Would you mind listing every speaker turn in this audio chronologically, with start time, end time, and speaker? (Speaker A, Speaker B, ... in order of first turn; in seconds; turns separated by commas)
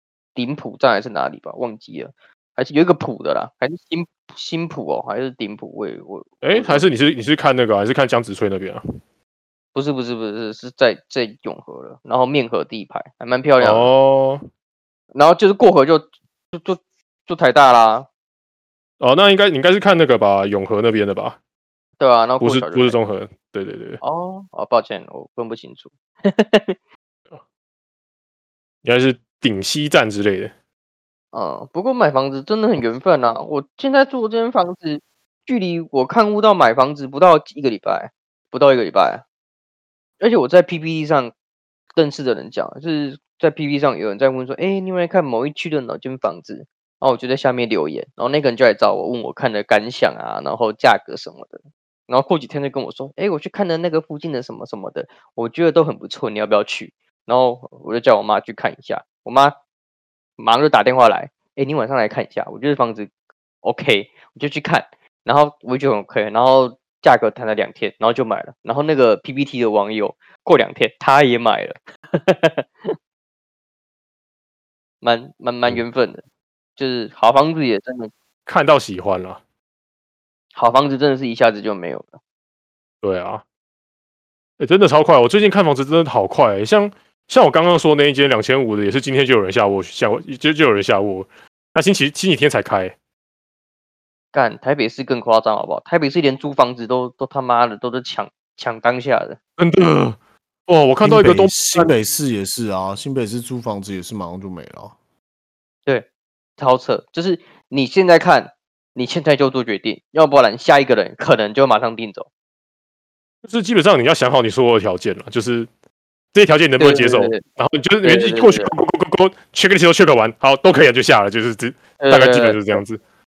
Speaker A: 0.3-6.9, Speaker B: 6.4-8.8, Speaker A: 9.7-13.9, Speaker B: 13.6-14.4, Speaker A: 15.1-18.1, Speaker B: 19.0-21.4, Speaker A: 22.0-23.0, Speaker B: 22.4-24.0, Speaker A: 24.0-26.7, Speaker B: 28.8-30.5, Speaker A: 31.3-39.2, Speaker A: 40.2-41.3, Speaker A: 42.0-59.5, Speaker A: 60.4-63.1, Speaker A: 63.6-72.9, Speaker A: 75.0-76.2, Speaker A: 76.8-78.1, Speaker B: 78.5-79.4, Speaker A: 80.5-82.1, Speaker B: 83.0-83.4, Speaker B: 84.6-92.9, Speaker A: 94.3-99.4, Speaker B: 99.6-100.2, Speaker B: 100.7-101.9, Speaker C: 101.0-105.0, Speaker A: 106.6-112.3, Speaker B: 113.4-115.7, Speaker B: 116.3-123.0, Speaker A: 116.8-117.4, Speaker A: 118.0-118.7, Speaker A: 122.0-122.8